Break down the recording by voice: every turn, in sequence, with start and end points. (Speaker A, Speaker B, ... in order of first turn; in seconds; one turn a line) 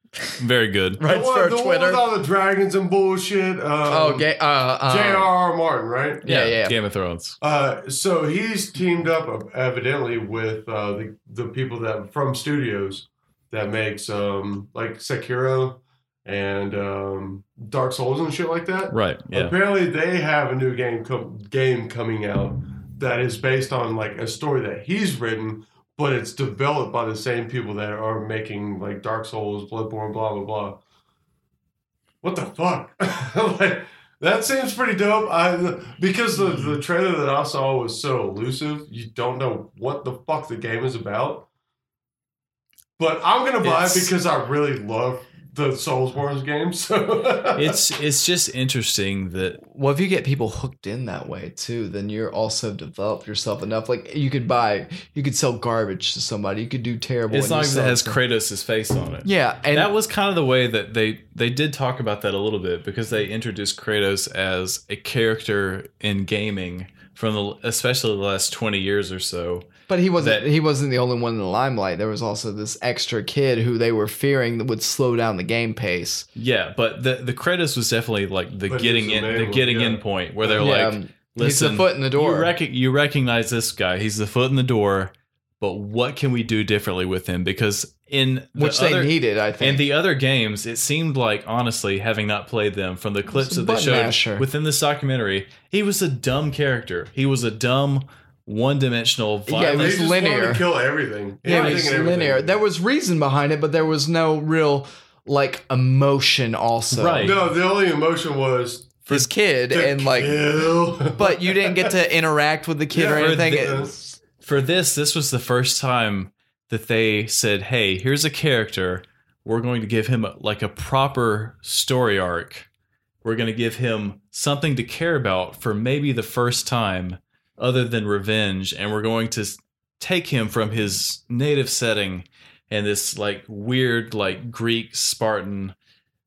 Speaker A: 0.4-1.0
Speaker B: 1.0-2.0
Speaker C: 1.0-4.3
Speaker B: 3.9-5.3
Speaker C: 4.8-6.2
Speaker B: 6.2-6.8
Speaker A: 6.2-7.4
Speaker C: 7.4-30.8
Speaker A: 18.9-19.5
Speaker C: 32.2-41.5
Speaker C: 43.0-47.8
Speaker A: 43.6-44.1
Speaker A: 47.5-49.6
Speaker B: 49.6-58.2
Speaker A: 57.3-70.4
Speaker B: 59.2-59.9
Speaker B: 69.9-76.2
Speaker A: 76.3-100.0
Speaker C: 78.7-80.7
Speaker B: 80.6-82.5
Speaker B: 88.5-89.8
Speaker B: 93.3-94.4
Speaker B: 99.5-100.6
Speaker C: 99.7-102.6
Speaker B: 101.4-107.4
Speaker A: 101.5-102.0
Speaker A: 106.9-107.5
Speaker C: 107.2-109.1
Speaker B: 109.0-110.5
Speaker C: 109.7-111.9
Speaker B: 111.1-114.2
Speaker C: 112.9-113.9
Speaker A: 113.1-113.9
Speaker A: 114.4-122.7
Speaker A: 123.2-135.7